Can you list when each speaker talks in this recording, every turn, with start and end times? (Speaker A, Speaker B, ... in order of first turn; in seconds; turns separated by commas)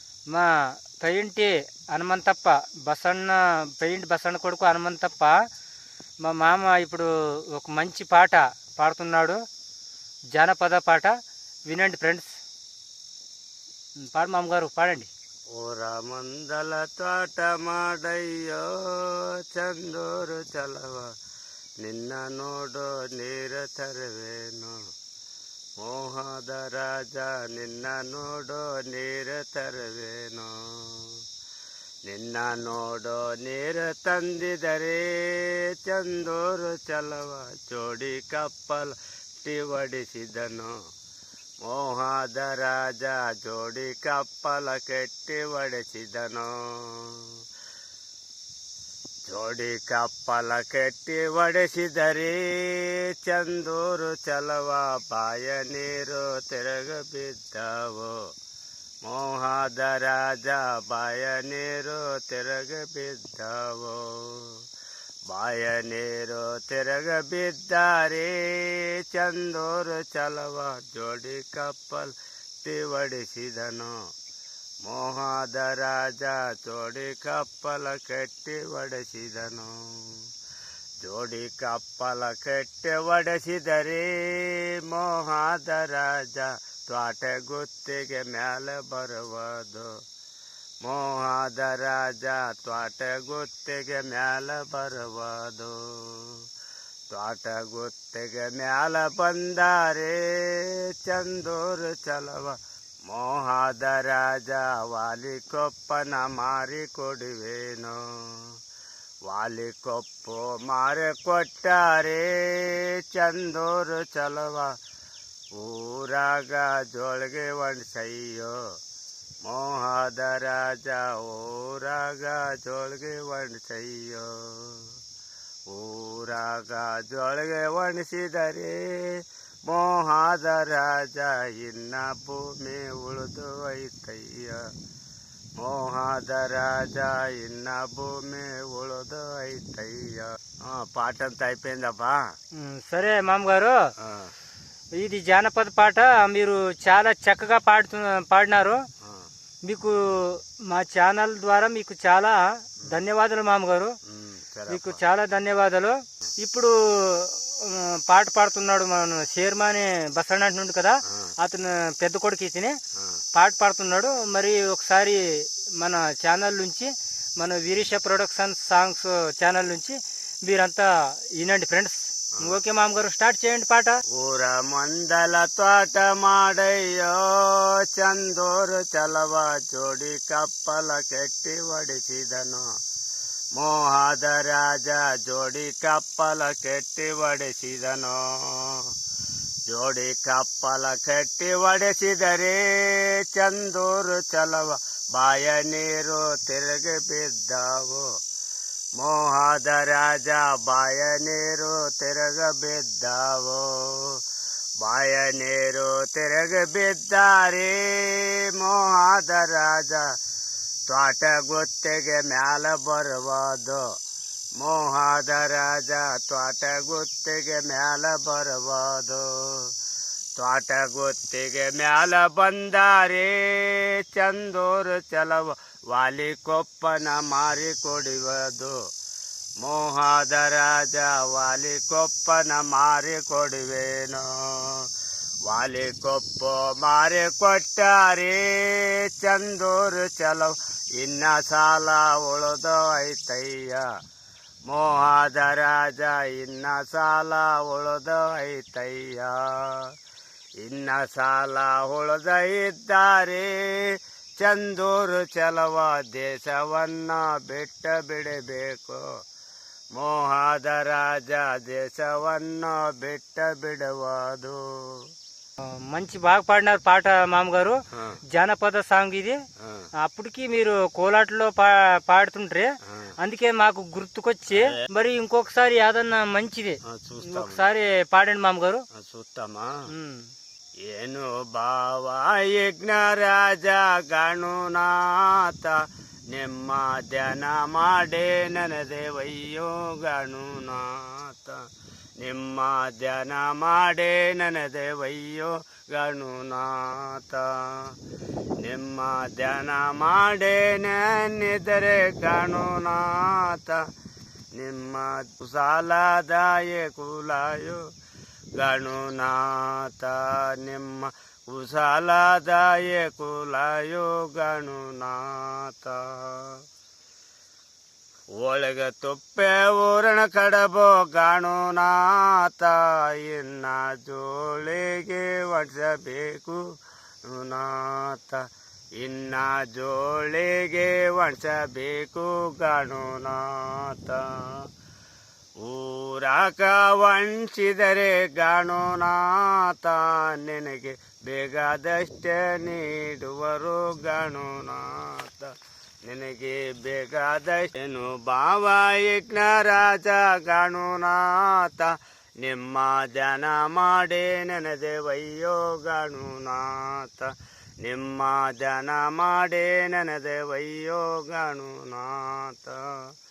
Speaker A: 1.0-5.3, Speaker A: 6.2-9.4, Speaker A: 10.3-11.1, Speaker A: 11.7-12.3, Speaker A: 14.1-15.1, Speaker B: 15.5-21.1, Speaker B: 21.8-24.8, Speaker B: 25.8-31.2, Speaker B: 32.1-40.7, Speaker B: 41.6-47.3, Speaker B: 49.3-58.2, Speaker B: 59.0-64.6, Speaker B: 65.3-74.0, Speaker B: 74.8-80.2, Speaker B: 81.0-89.9, Speaker B: 90.8-96.4, Speaker B: 97.1-108.5, Speaker B: 109.3-114.7, Speaker B: 115.5-118.6, Speaker B: 119.4-124.9, Speaker B: 125.7-134.7, Speaker B: 135.6-142.2, Speaker A: 142.6-143.8, Speaker B: 144.0-144.3, Speaker A: 145.0-148.8, Speaker B: 149.0-149.3, Speaker A: 149.7-154.0, Speaker B: 154.1-155.0, Speaker A: 154.7-162.8, Speaker B: 161.1-161.3, Speaker A: 163.3-174.0, Speaker B: 174.1-182.7, Speaker B: 183.6-188.9, Speaker B: 189.7-198.1, Speaker B: 199.0-204.2, Speaker B: 204.8-210.1, Speaker B: 210.9-213.9, Speaker B: 214.6-219.7, Speaker B: 220.4-228.8, Speaker B: 229.6-234.9, Speaker B: 235.5-243.9, Speaker B: 244.7-249.9, Speaker B: 250.6-259.0, Speaker B: 259.9-265.1, Speaker A: 265.7-267.8, Speaker B: 267.9-268.2, Speaker A: 268.3-269.4, Speaker B: 269.6-269.9, Speaker A: 270.0-272.7, Speaker B: 272.9-273.1, Speaker A: 273.2-278.8, Speaker B: 276.9-277.7, Speaker B: 278.9-279.7, Speaker A: 279.9-280.3, Speaker B: 280.9-291.6, Speaker B: 292.2-297.9, Speaker B: 298.6-303.8, Speaker B: 304.6-307.8, Speaker B: 308.6-316.6, Speaker B: 318.4-326.6, Speaker B: 327.2-328.4, Speaker B: 329.0-334.7, Speaker B: 335.6-345.5, Speaker B: 346.1-363.0